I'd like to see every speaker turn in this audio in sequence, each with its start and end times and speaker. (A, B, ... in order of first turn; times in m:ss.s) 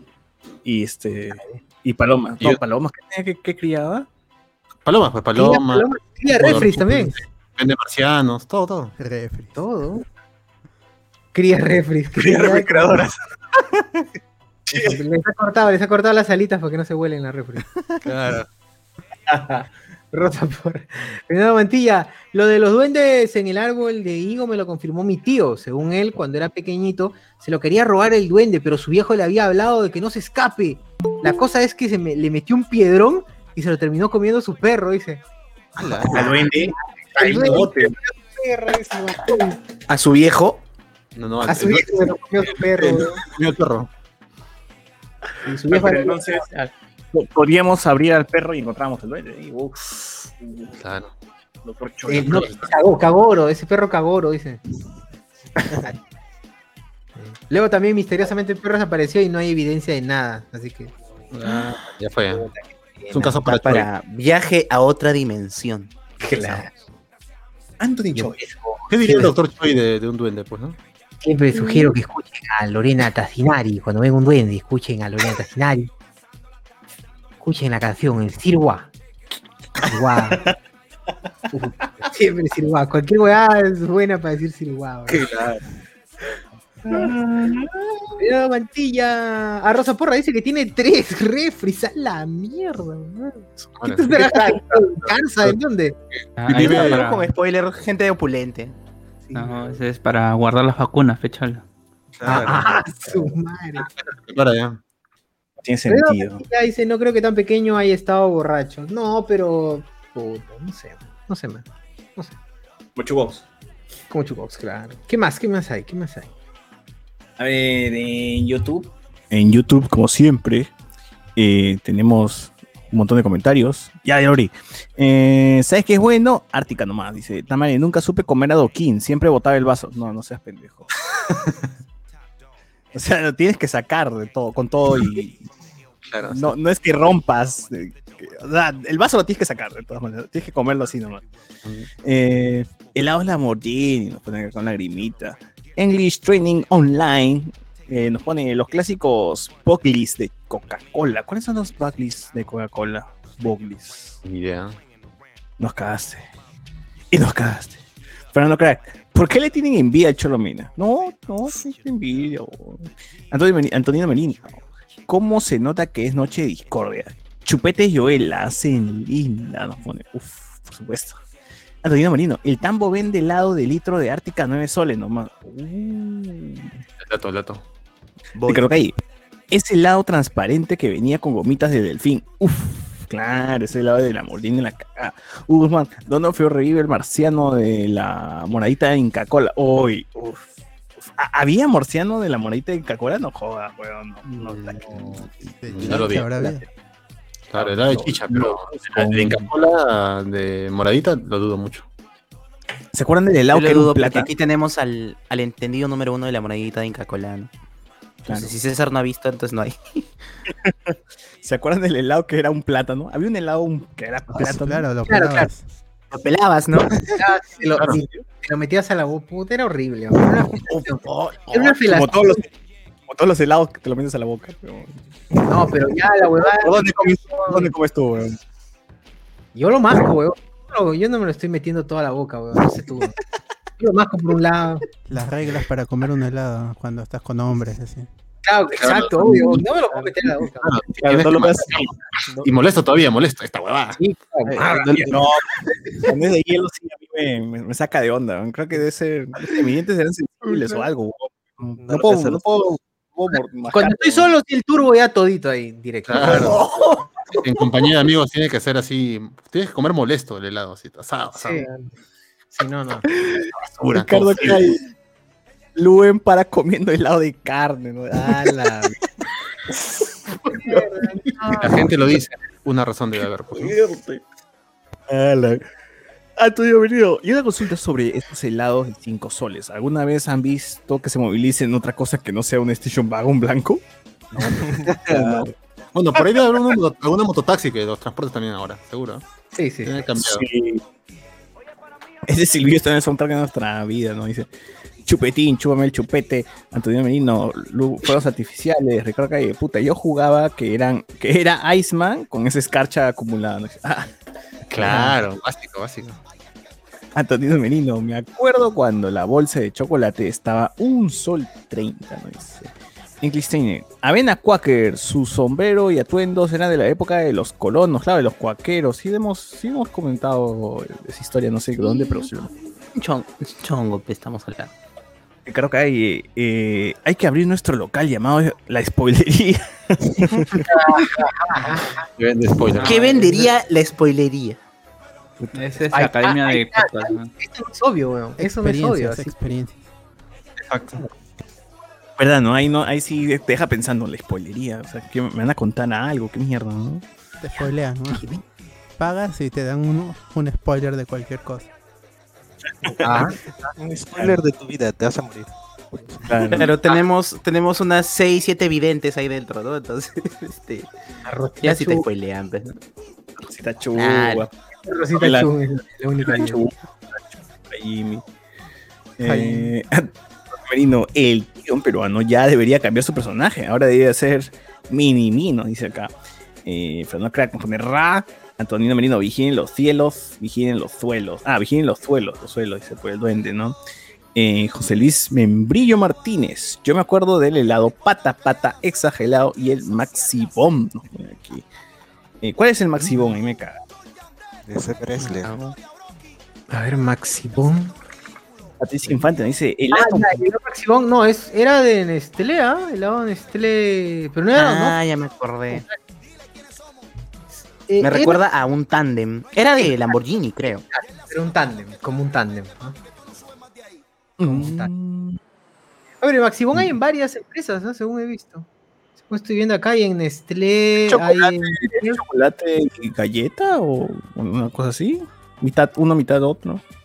0:00.6-0:04.1 A
0:01.3-0:01.6 B
0:04.8-0:09.0 C
0:05.4-0:07.2 B
0:09.0-0:09.6 D
0:09.5-0:10.0 B
0:11.3-0:13.0 B
0:12.2-0:14.1 A
0:14.7-0:15.0 A
0:14.7-0:17.6 B
0:18.0-0:18.5 C
0:19.3-0:19.6 A
0:20.1-0:35.2 B
0:35.8-0:36.3 E
0:36.0-0:38.0 A
0:36.1-0:39.6 B
0:39.9-0:40.6 F
0:41.2-0:43.9 C
0:41.5-0:43.2 B
0:45.4-0:46.4 B
0:45.7-0:46.5 A
0:47.1-0:50.7 A
0:50.8-0:51.1 C
0:51.6-0:52.7 A
0:52.1-0:54.6 B
0:55.7-0:56.0 B
0:57.2-1:00.9 B
1:01.3-1:02.5 C
1:02.3-1:03.4 B
1:03.1-1:03.9 C
1:03.4-1:06.6 F
1:06.2-1:06.7 B
1:07.8-1:08.5 A
1:08.2-1:09.3 B
1:08.9-1:10.8 C
1:11.2-1:15.9 B
1:11.6-1:11.9 A
1:17.4-1:18.9 B
1:19.8-1:20.6 A
1:19.9-1:20.4 B
1:21.5-1:25.2 B
1:25.1-1:25.6 A
1:26.8-1:27.1 B
1:26.9-1:28.1 A
1:28.2-1:36.0 B
1:33.6-1:34.1 C
1:34.1-1:35.1 A
1:36.2-1:36.9 C
1:36.4-1:37.3 G
1:36.5-1:37.1 A
1:36.9-1:38.8 F
1:39.3-1:39.8 B
1:39.3-1:41.6 G
1:42.2-1:42.8 C
1:42.3-1:42.7 A
1:42.3-1:43.9 B
1:43.8-1:44.8 C
1:45.6-1:46.4 A
1:45.9-1:51.6 B
1:53.0-1:53.4 A
1:54.1-1:56.3 B
1:57.4-2:00.7 A
2:01.4-2:10.9 A
2:12.9-2:15.4 A
2:16.1-2:16.5 C
2:16.3-2:21.2 A
2:22.0-2:34.2 A
2:34.2-2:34.8 C
2:35.6-2:36.2 A
2:37.1-2:37.8 A
2:38.3-2:51.2 A
2:51.8-2:56.7 A
2:57.0-2:57.6 C
2:58.4-2:58.9 F
2:58.5-2:58.9 A
2:59.5-3:10.4 A
3:11.1-3:16.6 A
3:14.4-3:15.2 C
3:15.6-3:16.7 D
3:15.7-3:16.3 C
3:17.5-3:21.9 C
3:17.6-3:19.5 A
3:22.9-3:24.3 A
3:23.5-3:27.5 F
3:28.3-3:28.5 A
3:28.3-3:30.1 F
3:30.5-3:34.8 A
3:34.4-3:35.7 D
3:35.1-3:35.5 B
3:36.1-3:37.0 F
3:37.2-3:42.2 B
3:37.8-3:38.2 A
3:40.7-3:41.8 F
3:41.8-3:42.5 A
3:43.1-3:45.0 A
3:45.5-3:47.7 B
3:46.5-3:48.4 A
3:49.6-3:53.2 B
3:53.8-3:54.8 B
3:55.1-3:58.1 D
3:58.4-4:00.8 B
3:58.8-3:59.6 C
4:00.6-4:01.9 C
4:01.0-4:01.9 A
4:02.4-4:04.0 C
4:04.0-4:05.1 B
4:04.5-4:05.2 E
4:05.0-4:05.5 A
4:06.0-4:14.3 A
4:11.7-4:12.4 E
4:13.7-4:16.6 B
4:16.1-4:16.6 C
4:16.2-4:17.4 A
4:17.4-4:21.7 C
4:21.4-4:21.9 B
4:22.5-4:23.1 B
4:23.1-4:24.8 A
4:23.6-4:24.6 C
4:25.8-4:29.0 A
4:28.3-4:28.9 B
4:30.4-4:32.2 A
4:30.5-4:31.9 B
4:31.6-4:33.8 C
4:33.5-4:34.2 A
4:35.1-4:35.6 A
4:36.4-4:43.8 A
4:44.3-4:45.5 A
4:44.6-4:45.5 E
4:45.9-4:49.2 C
4:49.5-4:49.9 B
4:49.8-4:50.5 C
4:50.2-4:50.8 A
4:52.3-4:54.5 A
4:55.0-5:04.1 A
5:04.7-5:06.2 C
5:04.8-5:05.1 B
5:07.2-5:12.6 A
5:13.2-5:22.5 A
5:23.0-5:24.7 F
5:25.5-5:30.7 A
5:30.3-5:32.0 B
5:32.2-5:33.0 C
5:32.8-5:34.6 F
5:32.8-5:33.2 A
5:35.5-5:37.3 G
5:35.9-5:39.6 B
5:38.4-5:39.9 D
5:40.6-5:41.0 C
5:42.2-5:47.0 A
5:47.4-5:48.3 D
5:49.0-5:51.7 D
5:52.8-5:53.3 A
5:53.0-5:53.4 B
5:53.8-5:56.6 E
5:56.3-5:56.8 A
5:56.5-6:00.9 F
6:01.2-6:02.0 B
6:01.6-6:02.7 F
6:03.4-6:04.5 A
6:04.0-6:04.4 F
6:04.8-6:06.6 B
6:05.2-6:05.5 A
6:06.2-6:08.2 A
6:09.2-6:10.1 A
6:09.2-6:09.7 D
6:10.6-6:16.1 A
6:16.6-6:23.8 A
6:24.4-6:31.6 A
6:32.4-6:33.8 A
6:34.7-6:35.6 E
6:35.2-6:35.8 F
6:36.7-6:37.9 B
6:38.8-6:40.4 A
6:39.9-6:45.0 B
6:44.6-6:45.9 F
6:47.9-6:48.4 B
6:48.0-6:50.8 F
6:49.8-6:50.1 B
6:50.9-6:53.0 B
6:54.4-6:55.4 A
6:54.4-6:54.9 B
6:56.2-6:58.7 B
6:59.3-7:02.2 B
7:01.1-7:06.8 A